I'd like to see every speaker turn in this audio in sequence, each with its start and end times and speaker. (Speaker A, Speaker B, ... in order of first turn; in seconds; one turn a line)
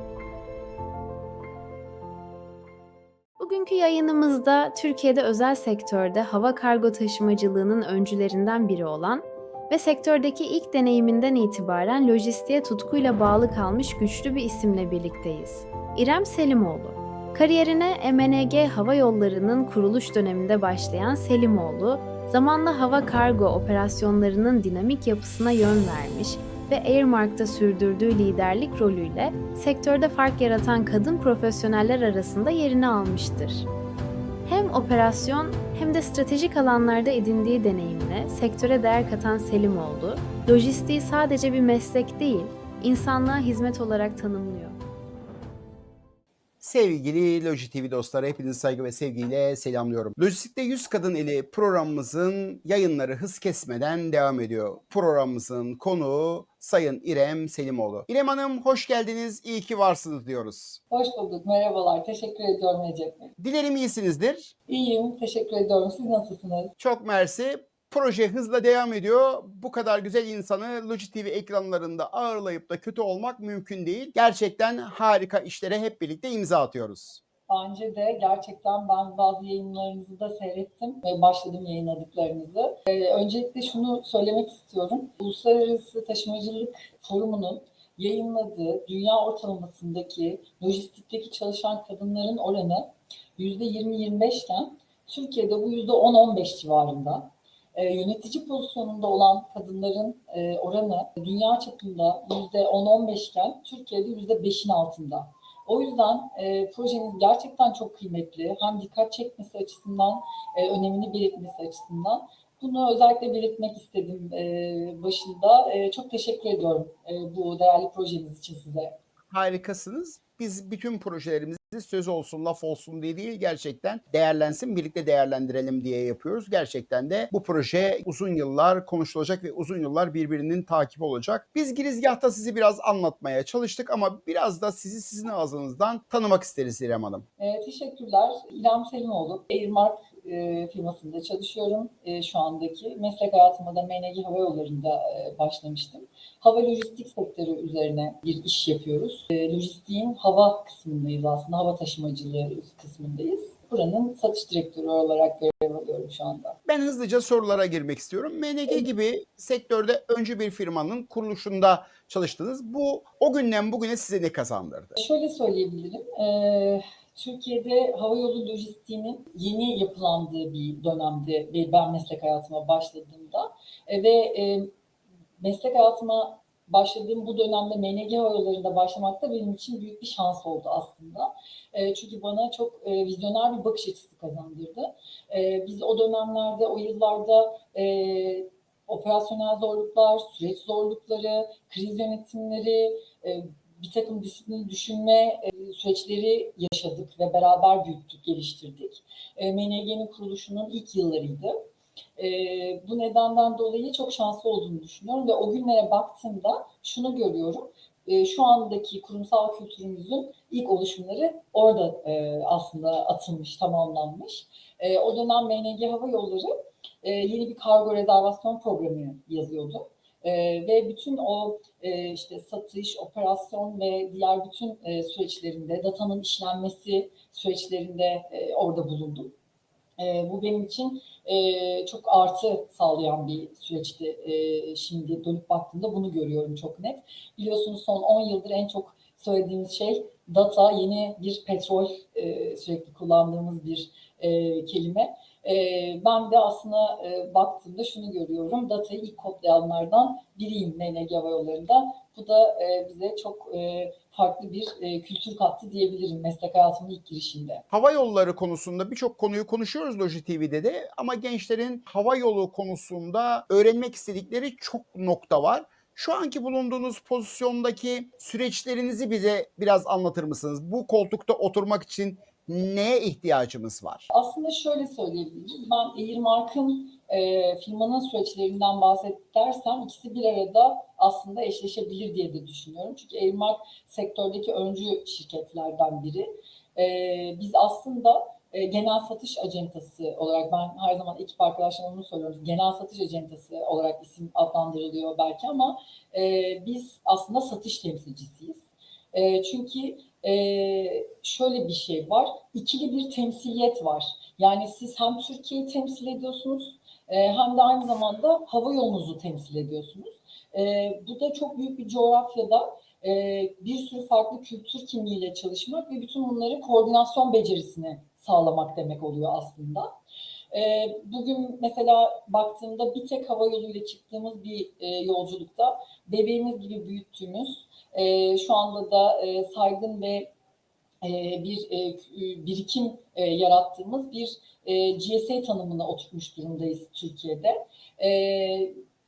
Speaker A: 3.4-33.7
Speaker A: 34.5-44.8
Speaker B: 46.6-60.8
Speaker C: 60.9-63.3
Speaker B: 63.4-64.5
Speaker C: 64.7-66.7
Speaker B: 66.8-77.2
Speaker C: 77.5-119.0
Speaker B: 119.3-137.2
Speaker C: 137.4-156.6
Speaker B: 156.7-165.0
Speaker C: 165.0-174.7
Speaker C: 175.4-201.6
Speaker C: 202.2-229.3
Speaker C: 230.0-257.6
Speaker B: 257.7-274.1
Speaker C: 274.1-298.6
Speaker C: 299.1-319.9
Speaker C: 320.5-330.3
Speaker C: 331.0-338.8